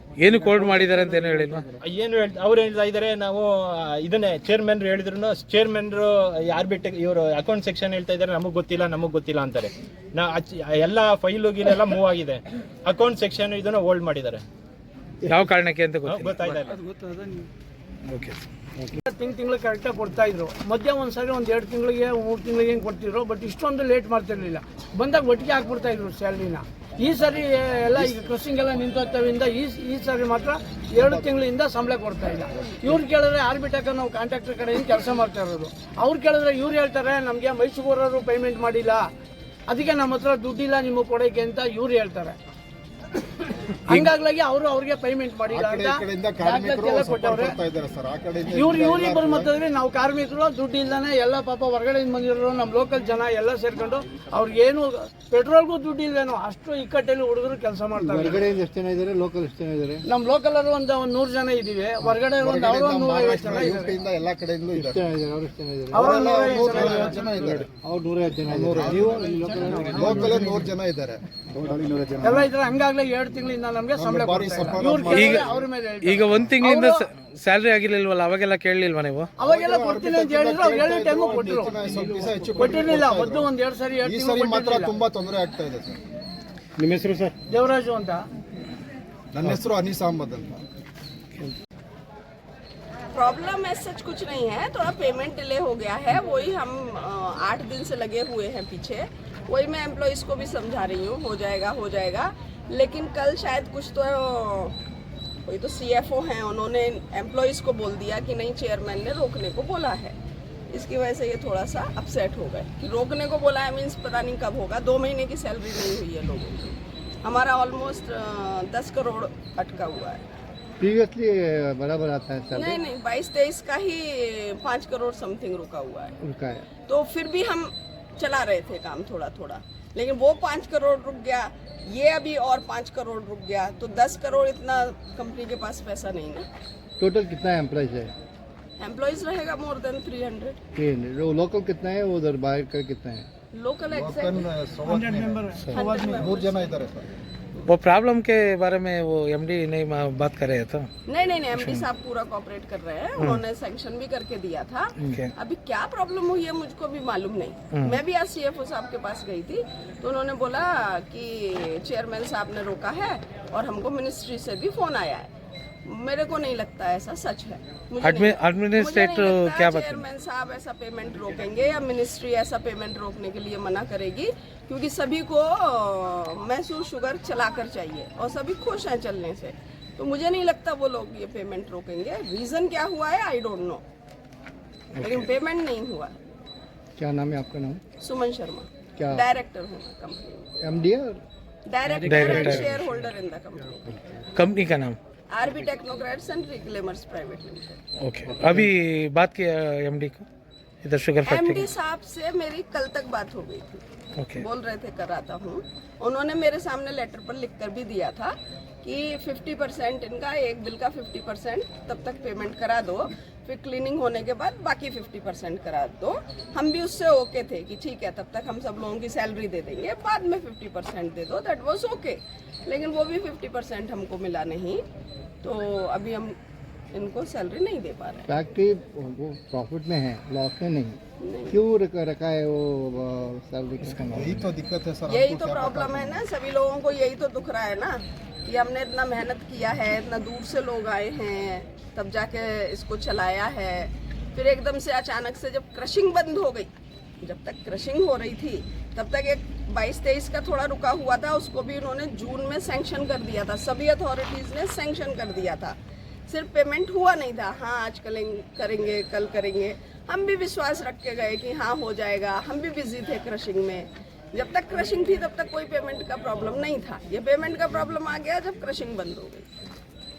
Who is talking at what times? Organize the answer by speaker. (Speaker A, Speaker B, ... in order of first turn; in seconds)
Speaker A: 0.2-1.7, 15.2-16.3, 18.1-18.4, 75.1-75.4, 76.0-79.3, 147.7-150.9, 151.5-151.8, 155.0-155.3, 157.7-158.0, 168.0-170.0, 192.0-192.7, 194.3-195.0, 198.0-200.2, 200.8-201.7, 204.2-204.4
Speaker B: 1.8-14.4, 16.1-16.8
Speaker C: 19.0-39.0, 39.7-42.4, 43.9-47.5, 48.5-58.4, 60.1-63.9, 65.9-67.2, 68.9-70.5, 72.2-77.1, 79.4-84.9, 87.5-88.3, 144.9-146.2
Speaker D: 31.0-31.4, 32.6-33.0, 45.5-49.5, 62.1-65.1, 65.9-67.7, 68.5-69.2, 69.8-72.5, 73.9-75.7, 79.4-86.0, 89.3-90.6, 143.9-147.1, 234.1-236.2
Speaker E: 58.0-60.0, 64.8-70.7, 120.8-122.8, 126.2-126.6, 137.0-138.1, 140.8-143.2, 187.0-187.8, 189.0-189.2, 190.6-191.2, 228.3-231.0, 231.5-234.5
Speaker F: 93.1-104.8, 105.5-110.1, 110.7-120.2, 122.5-126.1, 126.9-136.4, 138.8-140.6, 143.5-144.4, 145.7-146.7, 151.1-165.3, 165.9-183.8, 185.0-186.1, 188.0-190.5, 191.7-194.0, 195.3-197.8, 201.3-203.8, 204.4-224.8, 225.4-226.3, 226.9-228.3, 231.2-231.6, 235.1-246.7, 247.2-255.7, 256.3-269.4